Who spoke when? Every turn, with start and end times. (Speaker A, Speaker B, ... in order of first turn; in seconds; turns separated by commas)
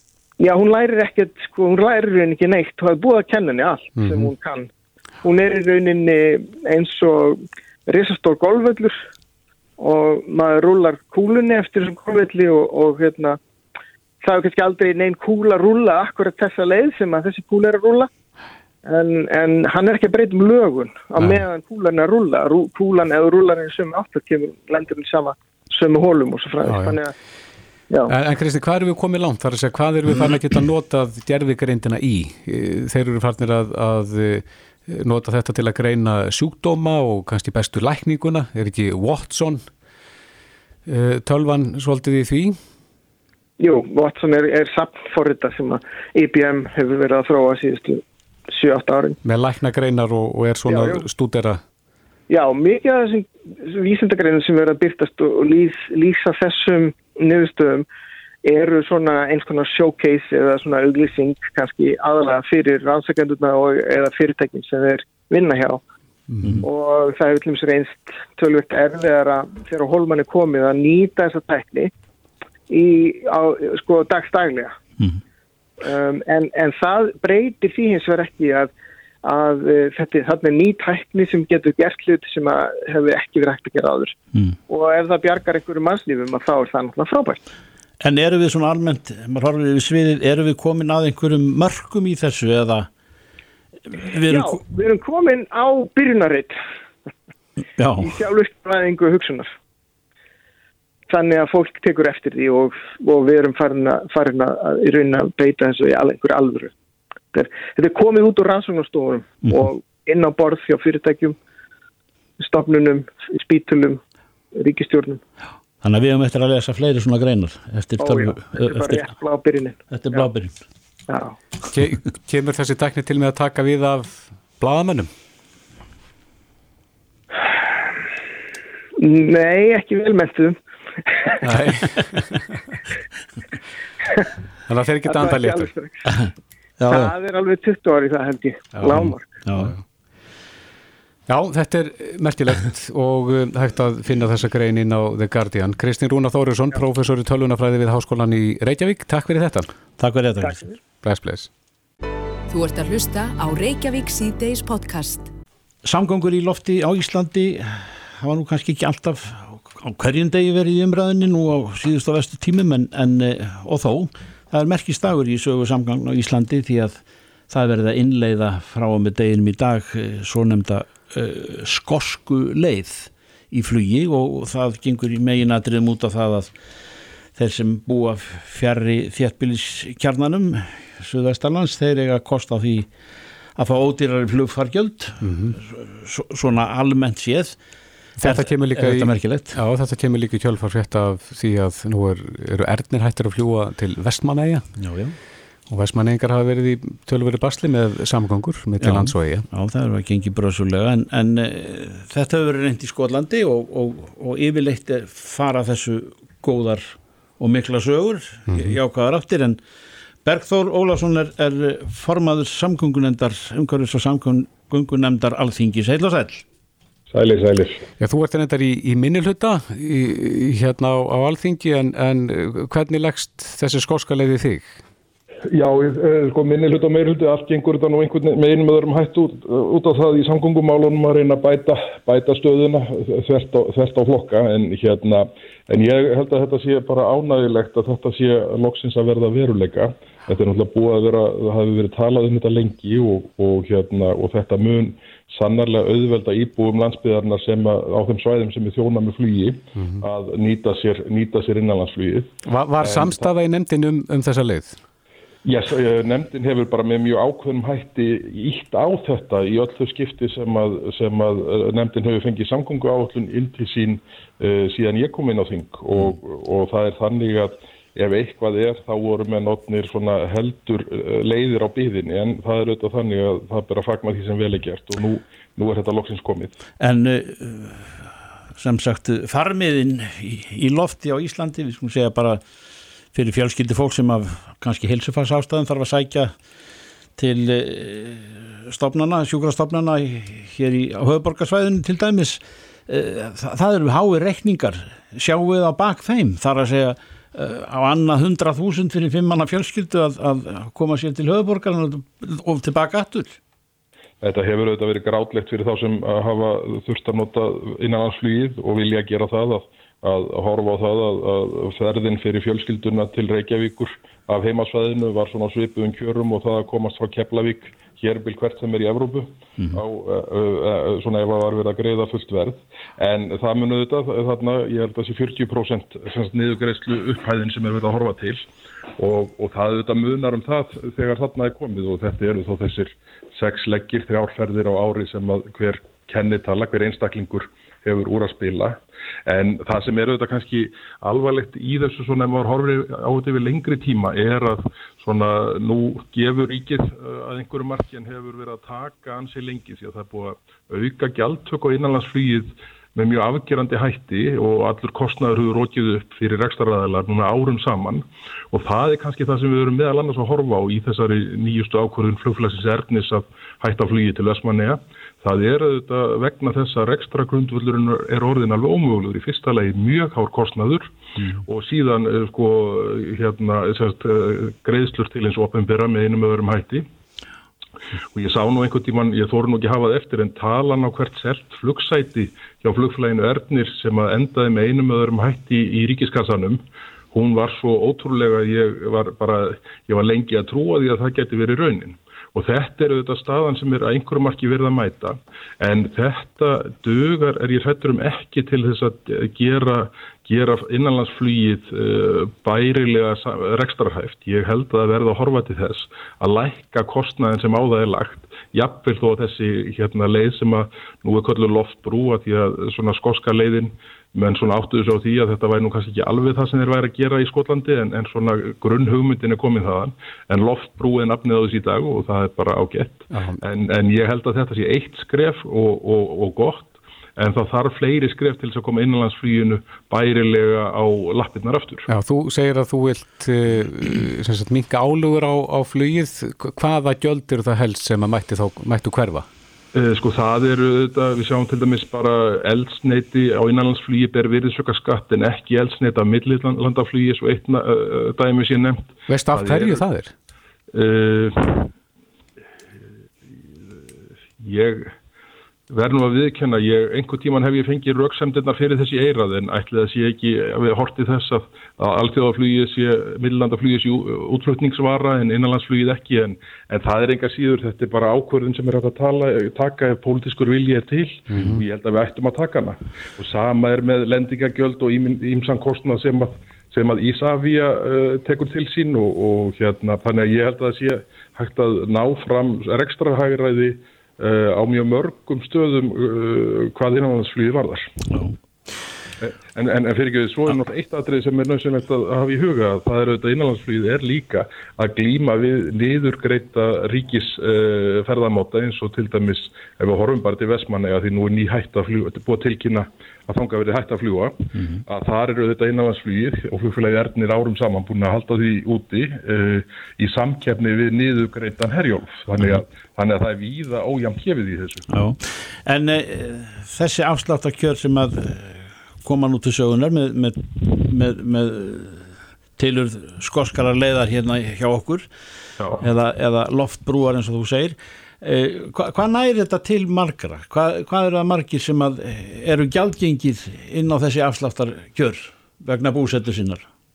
Speaker A: 0.4-4.7, Speaker B: 4.0-4.3, Speaker A: 5.2-9.0, Speaker A: 9.8-13.4, Speaker A: 14.2-18.1, Speaker A: 18.9-27.1, Speaker B: 21.2-21.4, Speaker B: 26.6-27.0, Speaker B: 28.1-39.7, Speaker B: 40.9-42.6, Speaker A: 43.6-49.2, Speaker B: 49.2-51.6, Speaker A: 50.7-51.0, Speaker A: 52.3-57.9, Speaker A: 58.4-65.8, Speaker B: 66.3-66.7, Speaker A: 66.6-71.9, Speaker A: 72.7-74.8, Speaker A: 75.8-78.7, Speaker A: 79.2-84.2, Speaker A: 84.7-87.4, Speaker C: 88.0-92.9, Speaker C: 93.9-94.6, Speaker A: 94.3-96.6, Speaker C: 97.8-98.2, Speaker A: 98.0-99.5, Speaker A: 101.1-106.7, Speaker A: 107.3-111.4, Speaker A: 112.4-114.0, Speaker A: 114.5-115.2, Speaker C: 115.8-119.1, Speaker A: 118.0-120.3, Speaker C: 119.9-120.5, Speaker A: 121.1-121.4, Speaker B: 121.7-125.1, Speaker A: 129.0-131.4, Speaker B: 131.4-132.7, Speaker B: 134.7-135.7, Speaker A: 135.1-136.1, Speaker C: 136.8-137.1, Speaker A: 136.9-139.4, Speaker B: 138.8-139.8, Speaker C: 138.9-139.7, Speaker B: 141.3-149.7, Speaker C: 150.0-150.6, Speaker B: 151.0-151.5, Speaker D: 152.5-155.3, Speaker C: 155.8-176.6, Speaker C: 177.4-182.9, Speaker C: 183.6-187.6, Speaker B: 185.2-185.6, Speaker B: 188.2-194.6, Speaker C: 188.2-189.6, Speaker C: 194.8-195.2, Speaker B: 195.7-199.4, Speaker C: 198.8-209.6, Speaker B: 208.5-208.8, Speaker C: 210.2-216.5, Speaker E: 217.1-217.8, Speaker B: 218.0-224.7, Speaker E: 225.5-253.2, Speaker B: 249.8-250.1, Speaker B: 252.5-254.8, Speaker E: 255.4-276.6, Speaker C: 276.8-282.4, Speaker C: 283.1-286.3, Speaker C: 287.2-303.4, Speaker E: 304.2-328.5, Speaker E: 329.0-370.9, Speaker E: 371.5-376.9, Speaker E: 378.1-431.9, Speaker B: 423.1-423.4, Speaker B: 431.9-439.3, Speaker E: 439.7-449.8, Speaker B: 449.1-450.1, Speaker E: 450.7-451.7, Speaker E: 453.2-453.8, Speaker E: 454.4-454.9, Speaker E: 455.7-487.9, Speaker B: 471.3-471.6, Speaker C: 488.1-488.4, Speaker E: 489.2-514.9, Speaker C: 504.6-504.8, Speaker C: 514.9-525.1, Speaker C: 525.8-536.7